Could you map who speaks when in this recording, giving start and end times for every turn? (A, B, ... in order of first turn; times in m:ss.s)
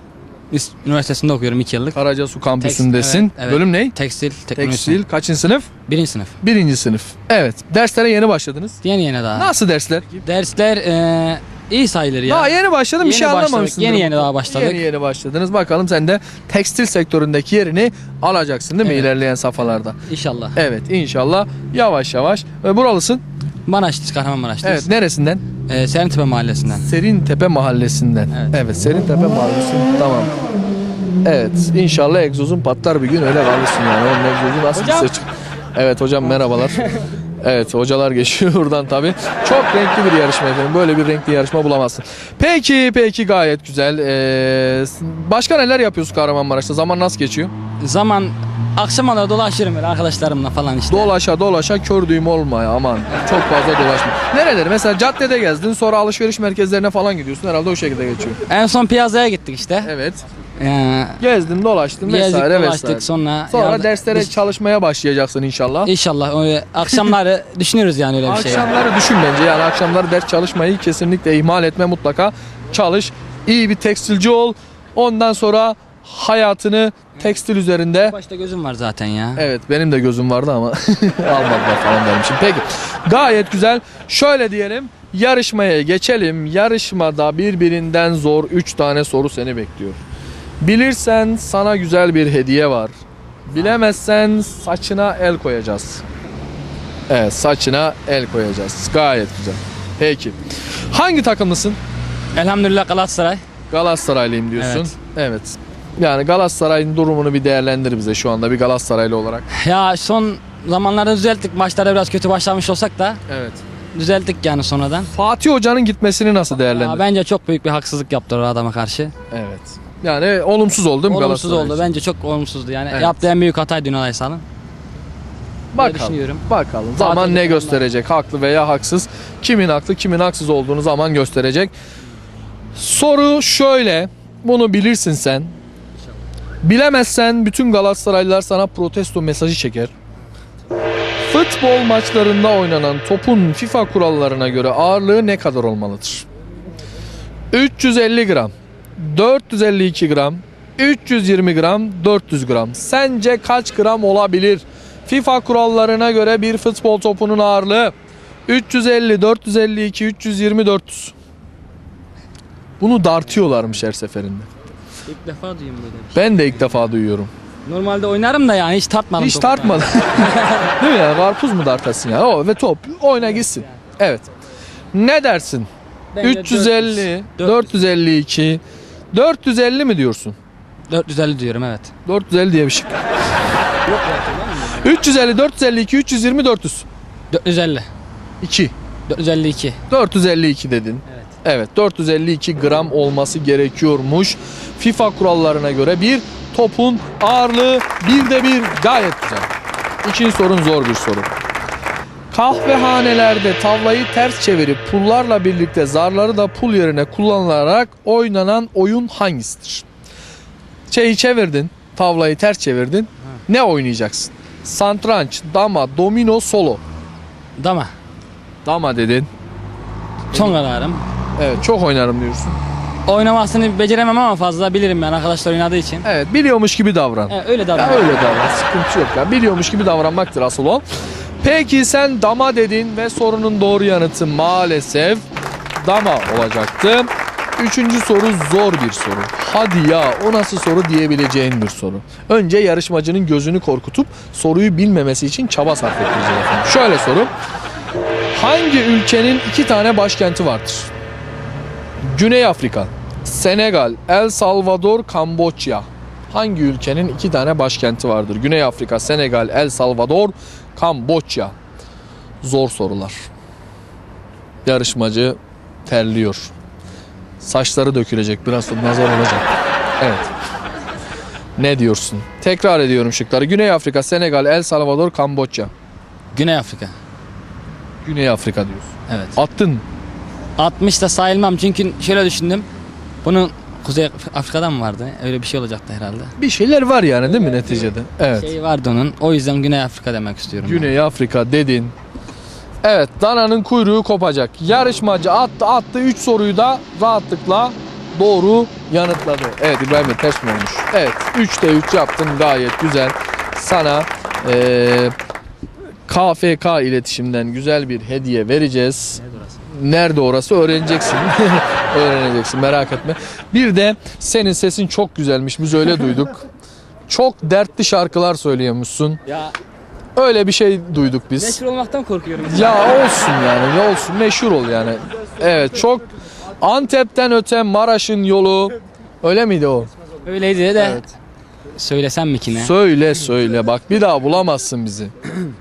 0:00.5-0:02.0 A
0:01.9-0:03.9 B
0:02.6-0:05.0 A
0:04.6-0:05.7 B
0:05.9-0:06.3 A
0:06.4-0:08.8 B
0:08.8-0:09.5 A
0:09.3-0:10.2 B
0:10.2-0:14.8 A
0:12.2-0:20.0 B
0:18.8-0:19.1 A
0:20.1-0:20.6 A
0:20.6-0:23.2 B
0:23.6-0:24.9 A
0:24.6-0:25.4 B
0:25.6-0:26.9 A
0:26.8-0:30.3 B
0:28.3-0:28.6 A
0:31.2-0:36.8 B
0:34.7-0:35.1 A
0:37.4-0:47.5 B
0:47.8-0:51.1 A
0:50.9-0:58.4 B
0:58.5-0:59.9 A
0:59.8-1:00.2 B
1:00.6-1:01.2 A
1:01.2-1:05.9 B
1:02.0-1:04.4 A
1:05.8-1:08.7 A
1:08.2-1:18.1 B
1:18.0-1:19.5 A
1:19.4-1:30.0 B
1:30.6-1:32.9 B
1:33.5-1:36.0 B
1:37.1-1:41.8 B
1:42.3-1:43.4 A
1:43.7-1:49.4 B
1:44.6-1:44.9 A
1:49.5-1:53.2 A
1:53.3-1:53.6 B
1:53.9-1:55.1 A
1:55.1-1:57.0 B
1:56.6-1:59.1 A
1:59.3-2:01.9 B
2:01.1-2:04.4 A
2:02.9-2:03.2 B
2:05.7-2:11.7 B
2:05.8-2:06.4 A
2:07.0-2:07.8 A
2:12.8-2:15.5 B
2:16.6-2:19.9 B
2:21.2-2:26.2 B
2:27.5-2:37.9 B
2:38.5-2:41.1 B
2:42.8-2:44.5 B
2:43.4-2:43.7 A
2:45.0-2:46.9 A
2:46.1-2:47.3 B
2:47.6-2:50.8 A
2:49.2-2:54.3 B
2:54.9-2:55.7 B
2:56.1-2:57.7 A
2:56.2-2:58.6 B
2:59.1-3:00.4 B
3:00.9-3:01.9 A
3:02.0-3:03.0 B
3:03.8-3:04.9 A
3:04.8-3:06.8 B
3:07.3-3:07.9 A
3:08.4-3:08.7 B
3:09.1-3:09.8 A
3:09.9-3:19.5 B
3:20.0-3:21.3 B
3:22.3-3:29.8 B
3:30.9-3:36.8 B
3:37.6-3:37.9 A
3:38.6-3:39.3 B
3:40.3-3:41.0 A
3:41.4-3:42.6 B
3:43.0-3:46.1 A
3:46.0-3:50.8 B
3:47.3-3:48.5 A
3:51.4-3:55.2 B
3:55.8-4:07.3 B
4:08.3-4:10.9 B
4:12.1-4:21.5 B
4:22.4-4:23.3 B
4:24.6-4:26.5 B
4:27.4-4:29.5 B
4:30.0-4:30.3 B
4:31.6-4:35.7 B
4:36.3-4:36.9 A
4:38.0-4:39.8 B
4:39.1-4:39.4 A
4:40.6-4:42.6 A
4:43.2-4:46.3 A
4:46.4-4:48.5 B
4:47.3-4:50.9 A
4:50.6-4:51.9 B
4:52.8-5:05.1 B
5:06.1-5:09.2 B
5:09.2-5:09.6 A
5:09.7-5:16.4 B
5:17.1-5:19.2 B
5:19.2-5:19.5 A
5:20.2-5:21.6 B
5:21.3-5:22.9 A
5:22.5-5:26.0 B
5:26.6-5:29.9 B
5:30.2-5:31.1 A
5:30.8-5:31.0 B
5:31.7-5:32.7 A
5:32.5-5:35.1 B